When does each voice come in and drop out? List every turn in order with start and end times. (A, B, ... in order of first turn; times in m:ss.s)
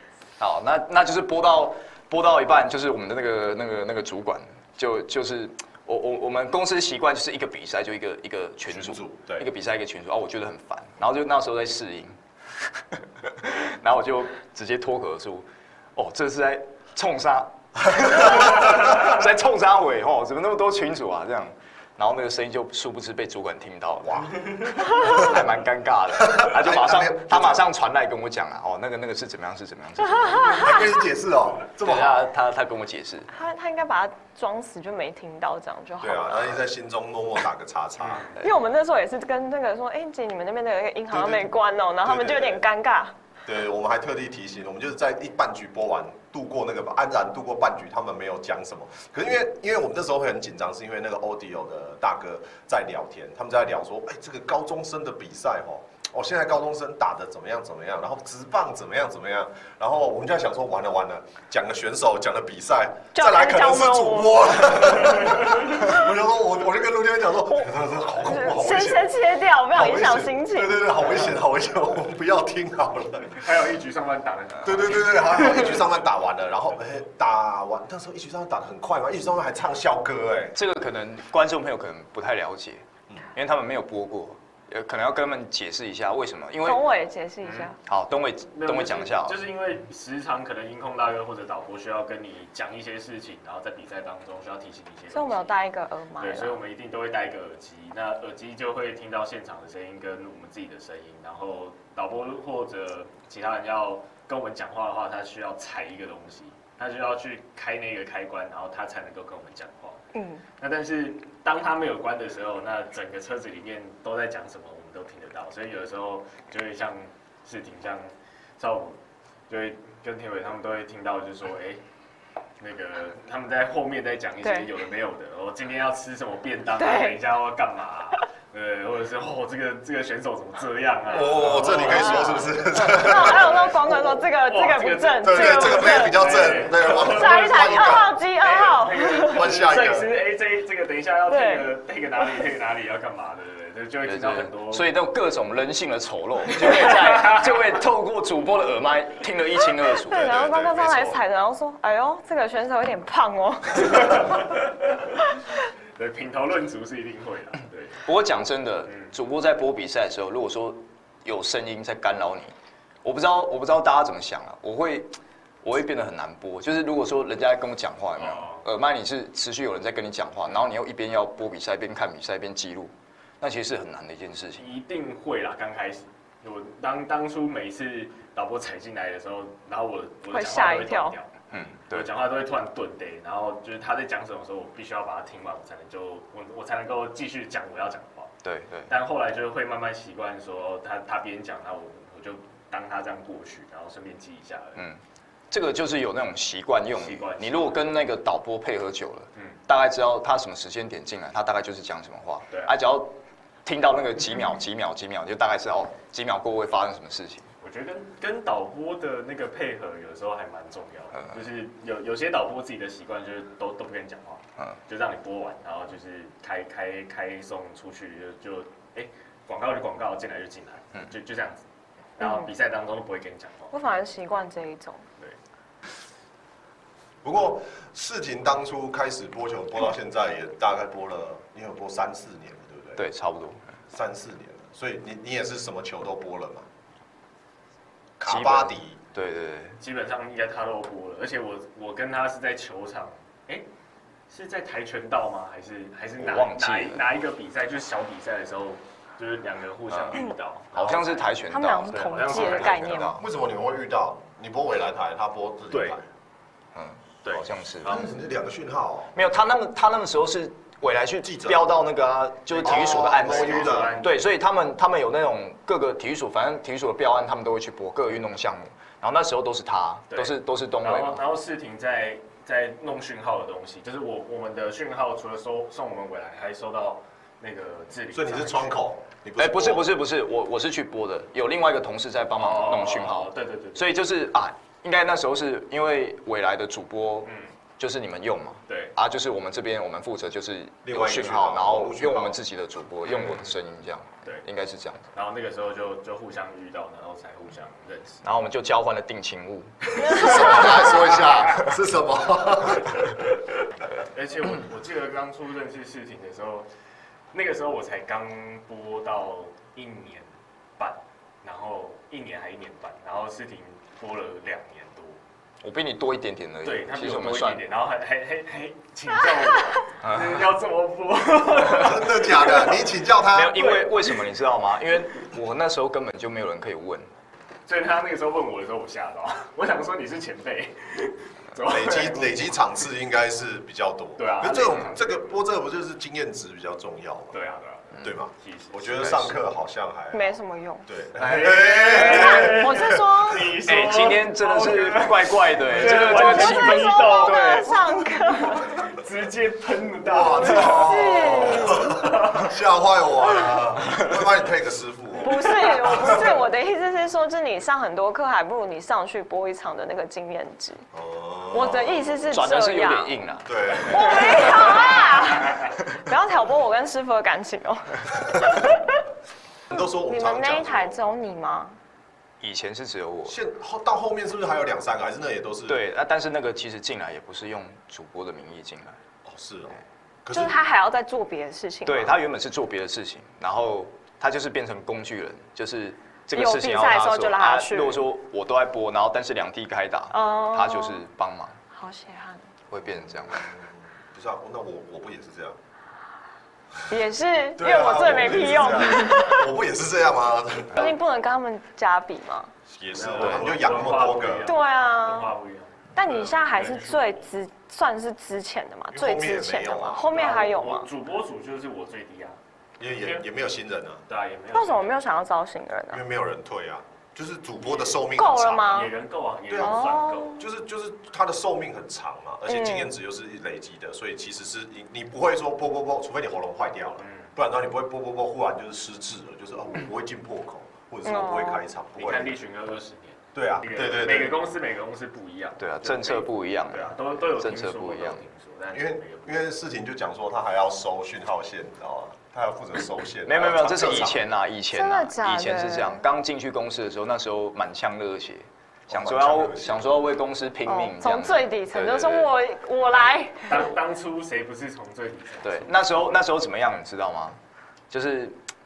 0:00.4-0:30.9 A
0:08.7-0:09.5 B
0:24.0-0:25.4 B
0:26.1-0:27.7 B
0:30.3-0:32.3 B
0:31.8-0:33.3 A
0:33.3-0:36.6 C
0:36.0-0:38.3 B
0:38.0-0:38.4 D
0:38.4-0:43.1 C
0:41.1-0:42.6 B
0:43.4-1:09.1 B
1:03.1-1:05.1 C
1:08.2-1:10.8 C
1:09.7-1:13.5 B
1:13.4-1:15.8 D
1:14.6-1:20.6 B
1:20.5-1:26.8 A
1:26.6-1:27.8 C
1:27.4-1:27.7 D
1:27.8-1:29.4 A
1:28.5-1:35.5 D
1:35.1-1:36.6 C
1:36.2-1:50.0 D
1:50.1-1:50.4 C
1:50.6-1:59.0 D
1:59.5-2:01.8 D
2:02.6-2:24.9 D
2:04.4-2:04.7 C
2:06.8-2:07.2 C
2:11.1-2:13.8 B
2:11.9-2:16.2 C
2:15.2-2:18.2 B
2:16.9-2:19.6 C
2:19.2-2:20.1 B
2:21.3-2:21.7 C
2:24.0-2:31.2 A
2:26.5-2:27.6 D
2:30.0-2:34.4 C
2:30.1-2:31.0 B
2:33.8-2:35.1 D
2:36.0-2:38.0 D
2:38.0-2:42.5 A
2:38.9-2:39.1 D
2:43.0-2:54.6 A
2:48.2-2:48.6 D
2:54.6-3:08.3 D
3:00.3-3:01.1 C
3:01.5-3:02.1 A
3:08.4-3:08.9 A
3:08.9-3:14.8 D
3:15.5-3:23.1 A
3:16.9-3:17.8 D
3:23.6-3:27.5 A
3:27.6-3:41.6 D
3:42.2-3:43.7 D
3:42.2-3:42.5 C
3:43.7-3:45.0 C
3:47.2-3:53.0 B
3:53.0-3:53.6 A
3:53.9-3:56.6 B
3:58.2-3:59.0 B
3:58.2-3:59.8 A
3:59.8-4:03.6 D
4:04.3-4:11.3 D
4:06.2-4:07.0 A
4:09.9-4:10.2 A
4:10.7-4:11.0 B
4:10.7-4:13.2 A
4:11.5-4:13.2 C
4:11.9-4:13.1 D
4:13.1-4:16.0 B
4:15.7-4:16.0 D
4:16.7-4:18.0 A
4:17.2-4:18.1 D
4:17.8-4:19.3 B
4:19.1-4:31.2 A
4:21.2-4:21.7 B
4:22.5-4:24.2 D
4:22.6-4:23.9 B
4:30.1-4:38.8 D
4:38.1-4:39.9 B
4:39.4-4:55.0 A
4:42.4-4:44.0 D
4:47.2-4:47.5 D
4:48.7-4:48.9 D
4:50.8-4:52.4 B
4:53.1-4:53.5 D
4:55.1-4:58.2 D
4:58.2-5:01.5 A
5:00.0-5:03.2 B
5:02.8-5:03.2 D
5:04.0-5:06.7 D
5:07.3-5:15.2 D
5:15.6-5:17.6 A
5:16.6-5:22.9 D
5:20.0-5:20.4 A
5:21.7-5:23.6 B
5:23.3-5:27.1 A
5:23.6-5:24.2 D
5:27.7-5:32.7 D
5:31.6-5:37.4 B
5:34.2-5:35.3 D
5:37.3-5:38.9 D
5:38.0-5:43.2 B
5:39.0-5:39.3 A
5:40.1-5:40.8 C
5:41.2-5:52.5 D
5:41.9-5:43.6 C
5:43.6-5:47.7 A
5:45.8-5:48.8 C
5:50.0-5:56.4 B
5:50.4-5:51.9 C
5:55.2-6:00.8 C
6:00.9-6:02.2 B
6:01.5-6:03.2 C
6:02.3-6:04.9 A
6:03.4-6:04.9 B
6:03.8-6:09.0 C
6:09.7-6:11.0 B
6:09.7-6:11.8 C
6:12.4-6:13.4 A
6:13.3-6:15.8 B
6:15.7-6:19.0 A
6:19.2-6:20.6 B
6:20.3-6:22.2 C
6:21.8-6:31.6 A
6:26.3-6:28.0 C
6:30.1-6:31.0 C
6:31.7-6:32.4 C
6:32.7-6:33.5 A
6:33.0-6:35.6 B
6:36.9-6:39.5 C
6:37.6-6:40.9 B
6:40.7-6:42.5 C
6:42.7-6:44.5 B
6:42.9-6:47.2 D
6:44.4-6:45.3 C
6:45.9-6:50.9 C
6:48.9-6:50.1 B
6:50.1-6:52.4 D
6:52.8-6:54.0 B
6:53.0-6:53.2 D
6:54.1-6:54.9 D
6:54.5-6:56.0 C
6:55.9-6:58.9 B
6:57.6-6:58.0 D
6:58.1-6:58.9 C
6:58.7-7:00.4 D
6:59.5-7:12.4 B
6:59.6-7:00.4 C
7:02.5-7:02.9 C
7:07.0-7:07.3 D
7:11.0-7:11.7 C
7:12.0-7:19.4 D
7:13.3-7:14.4 B
7:15.6-7:18.2 A
7:18.7-7:24.2 B
7:23.2-7:32.3 A
7:24.7-7:26.0 C
7:28.9-7:30.1 B
7:30.6-7:33.7 C
7:33.5-7:35.7 D
7:35.4-7:37.4 A
7:37.9-7:38.4 A